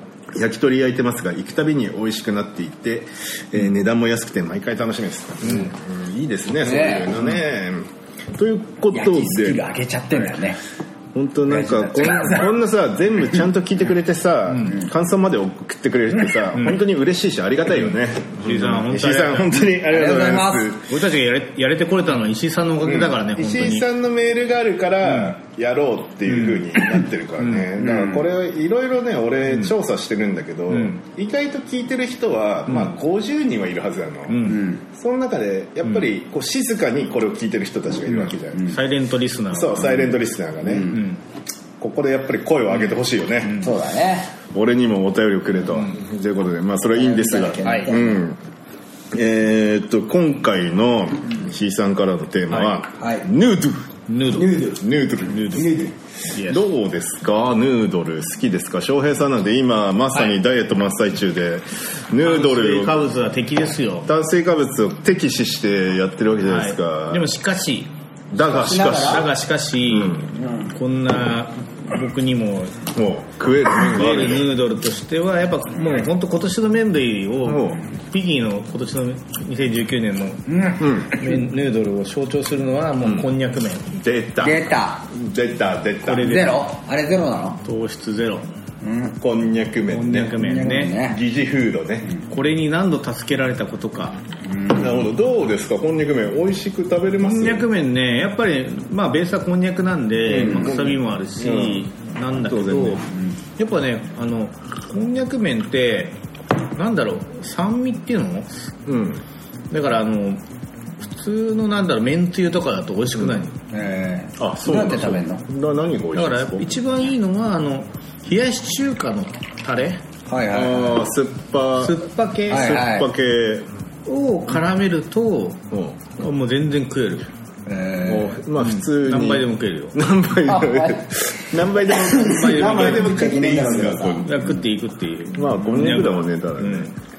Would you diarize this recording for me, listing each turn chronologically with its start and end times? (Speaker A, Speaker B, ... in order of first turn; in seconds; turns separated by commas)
Speaker A: 0.3-9.7, Speaker B: 6.6-7.1, Speaker B: 8.9-10.6, Speaker A: 11.1-20.9, Speaker B: 11.5-12.5, Speaker C: 18.4-19.7, Speaker B: 19.7-20.7, Speaker C: 20.9-23.9, Speaker A: 22.8-38.8, Speaker C: 25.1-25.3, Speaker C: 26.3-26.7, Speaker C: 27.4-27.7, Speaker C: 30.7-31.0, Speaker C: 32.7-32.9, Speaker C: 34.3-34.7, Speaker B: 34.4-34.8, Speaker C: 38.6-40.2, Speaker A: 39.5-41.0, Speaker C: 40.9-41.2, Speaker A: 41.8-43.7, Speaker C: 43.4-43.7, Speaker B: 43.6-44.3, Speaker A: 44.5-48.4, Speaker B: 46.9-48.2, Speaker A: 49.1-63.1, Speaker C: 52.5-52.8, Speaker B: 53.0-53.3, Speaker C: 54.1-54.7, Speaker B: 54.4-54.8, Speaker C: 55.2-56.6, Speaker B: 55.5-55.9, Speaker C: 62.2-64.1, Speaker A: 64.0-67.3, Speaker C: 66.5-67.9, Speaker A: 68.3-69.3, Speaker B: 68.4-69.3, Speaker C: 68.6-72.8, Speaker A: 69.8-70.3, Speaker B: 70.3-70.7, Speaker A: 72.9-74.5, Speaker C: 73.7-83.9, Speaker A: 77.4-77.8, Speaker B: 80.5-80.8, Speaker A: 80.8-81.2, Speaker A: 83.0-83.3, Speaker A: 83.9-86.4, Speaker B: 84.4-85.1, Speaker C: 86.0-86.7, Speaker B: 86.2-87.6, Speaker C: 87.6-88.5, Speaker B: 88.8-89.1, Speaker A: 89.2-90.4, Speaker C: 89.9-91.0, Speaker B: 90.3-91.2, Speaker A: 90.9-92.1, Speaker C: 92.3-94.2, Speaker B: 94.4-95.0, Speaker A: 94.7-97.7, Speaker C: 97.2-103.0, Speaker A: 100.2-103.0, Speaker B: 103.1-103.4, Speaker C: 103.6-106.2, Speaker C: 106.8-108.5, Speaker A: 108.8-109.2, Speaker C: 109.7-110.4, Speaker C: 111.0-113.6, Speaker B: 113.7-115.4, Speaker A: 114.4-116.8, Speaker C: 116.1-120.0, Speaker B: 120.3-121.0, Speaker A: 120.5-123.7, Speaker C: 121.8-122.8, Speaker B: 122.5-123.1, Speaker C: 124.0-125.6, Speaker A: 125.7-126.0, Speaker C: 126.1-127.3, Speaker B: 127.7-128.4, Speaker A: 128.0-134.4, Speaker C: 128.6-130.0, Speaker B: 130.4-131.1, Speaker B: 131.8-134.3, Speaker C: 132.1-133.3, Speaker C: 134.2-136.9, Speaker A: 135.3-136.9